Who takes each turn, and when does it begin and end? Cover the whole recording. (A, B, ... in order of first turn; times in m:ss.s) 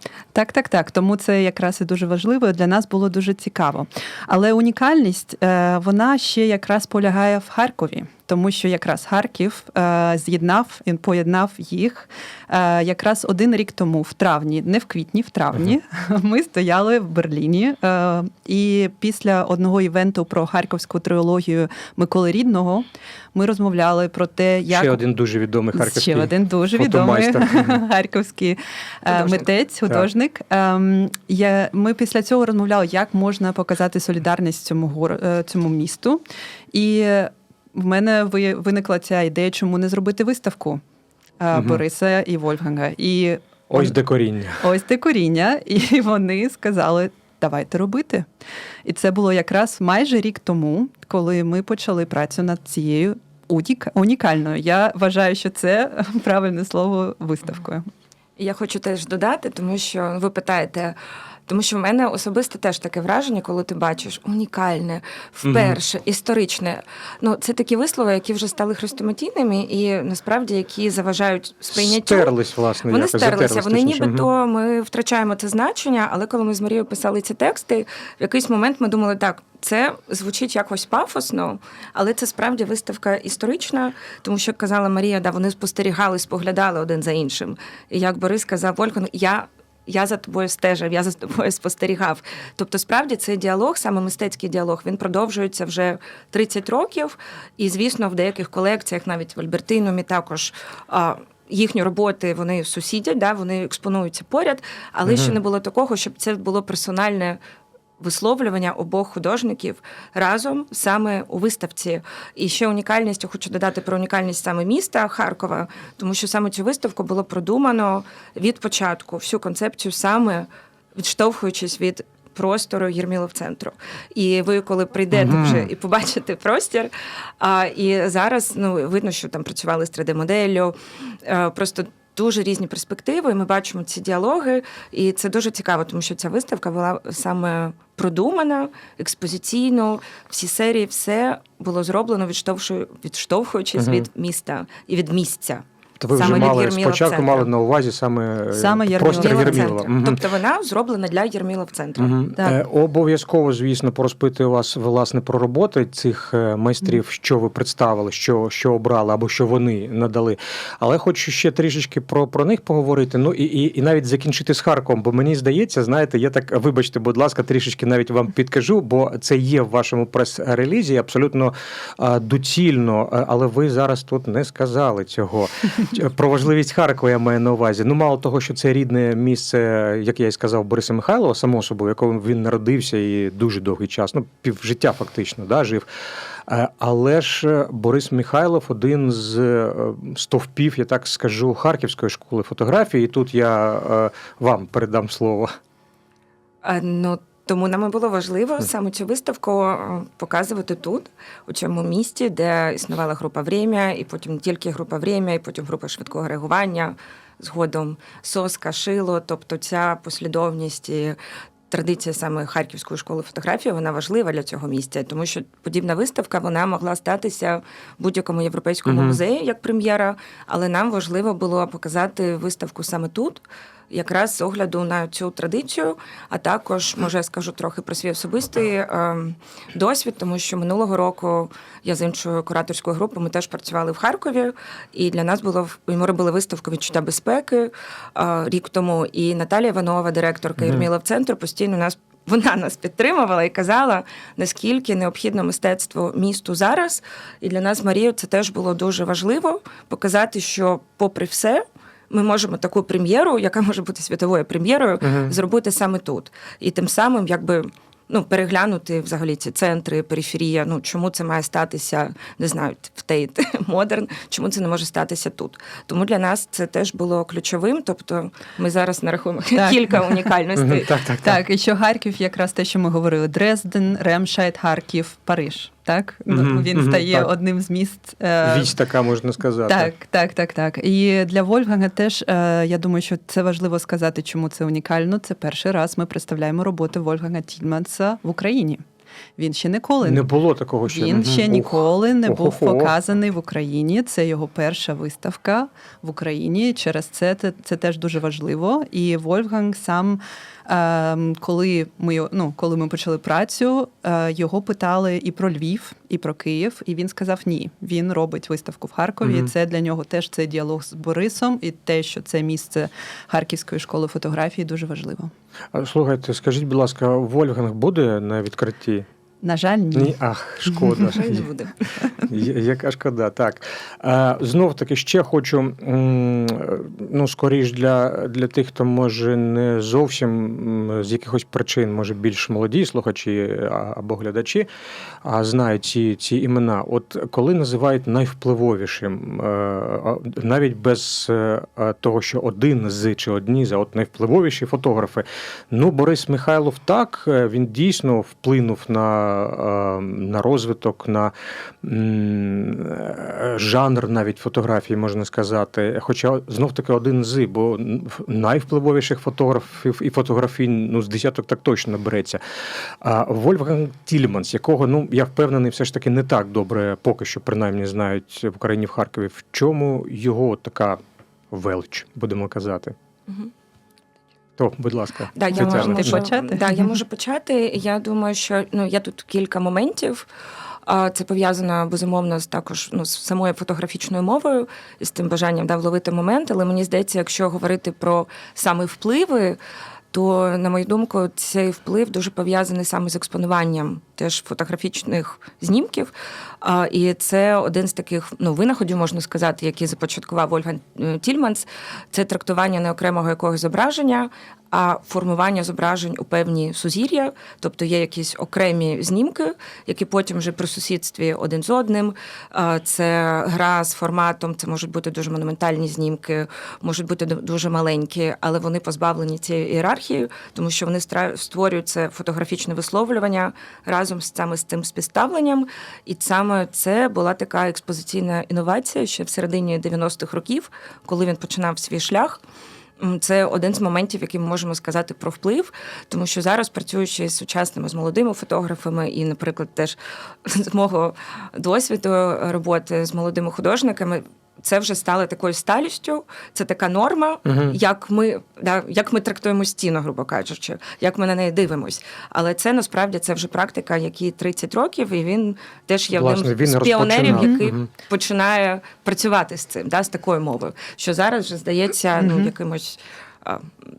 0:00.3-0:25.0 A
0:24.7-0:27.8 B
0:25.7-0:40.8 A
0:29.1-0:29.4 C
0:41.4-0:43.9 A
0:41.5-0:41.8 B
0:43.7-0:44.6 B
0:44.6-0:48.3 A
0:48.8-0:57.9 A
0:58.4-1:12.3 C
1:05.4-1:05.8 B
1:11.7-1:14.3 B
1:12.9-1:47.4 C
1:45.0-1:45.4 B
1:48.0-2:27.5 C
2:05.1-2:05.7 B
2:23.8-2:24.1 B
2:26.0-2:30.2 B
2:28.5-2:29.8 A
2:29.1-2:32.2 C
2:32.0-3:05.9 B
3:06.4-3:15.5 B
3:16.6-3:31.2 C
3:31.7-4:31.0 C
3:38.8-3:39.2 B
4:00.6-4:00.9 B
4:15.0-4:15.3 B
4:29.5-4:30.2 A
4:30.6-4:31.4 B
4:31.2-4:38.8 A
4:36.3-4:37.3 B
4:38.4-4:39.9 B
4:39.7-4:48.8 A
4:49.4-4:50.2 A
4:50.0-4:52.9 B
4:50.8-5:15.3 A
5:09.2-5:09.5 B
5:15.7-5:19.0 B
5:19.4-5:20.1 A
5:19.9-5:21.5 B
5:20.7-5:21.1 A
5:21.1-5:21.7 C
5:22.2-5:34.7 B
5:35.2-6:02.4 B
6:03.0-6:11.0 B
6:11.5-6:12.9 B
6:14.6-6:16.3 B
6:15.3-6:20.3 C
6:15.5-6:16.9 A
6:20.8-6:29.6 C
6:30.1-7:12.4 C
7:13.0-7:43.7 C
7:27.4-7:27.8 B
7:36.1-7:37.9 B
7:37.3-7:37.5 A
7:42.2-7:42.5 A